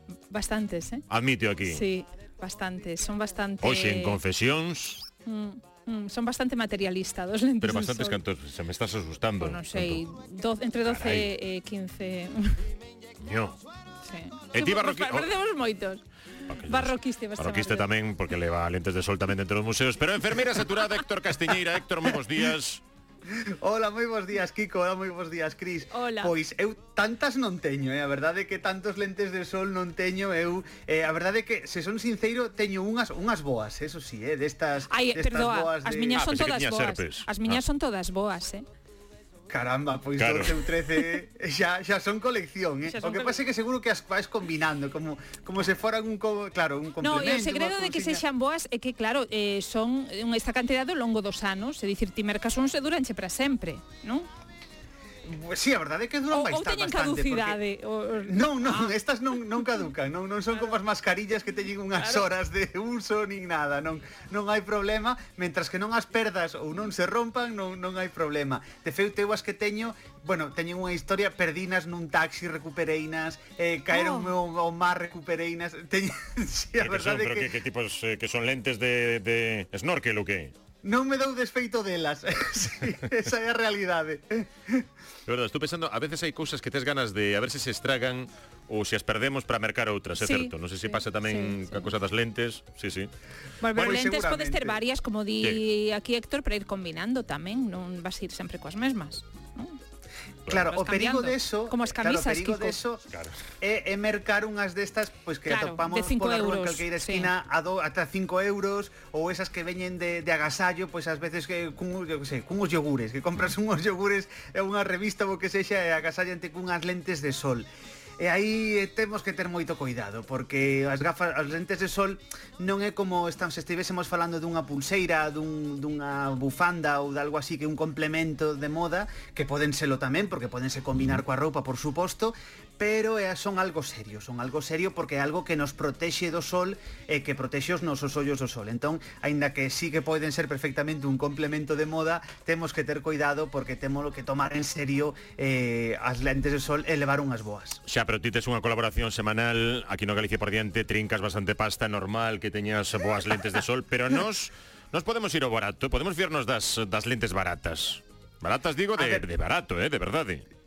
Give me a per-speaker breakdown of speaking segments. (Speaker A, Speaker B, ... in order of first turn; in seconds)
Speaker A: 0.3-1.0, 1.6-4.2, 5.2-8.2, 9.4-12.7, 14.0-17.9, 25.9-26.3, 34.9-38.6, 42.9-43.4, 47.0-54.3, 56.3-58.9, 62.0-62.2, 73.9-74.3, 90.2-91.9, 93.6-99.8, 100.6-102.8, 105.5-107.3
Speaker B: 1.1-1.8, 3.6-5.0, 7.6-10.0, 10.8-11.3, 13.2-13.6, 14.5-15.3, 16.5-22.8, 36.1-37.6, 40.2-40.7, 76.8-80.5, 85.3-93.1, 93.7-94.0, 103.1-103.4, 147.8-160.4
Speaker C: 23.3-36.3, 39.5-48.2, 55.2-57.6, 58.2-77.5, 80.8-84.8, 93.7-94.8, 100.5-103.0, 103.6-117.7, 118.2-147.8, 159.0-159.3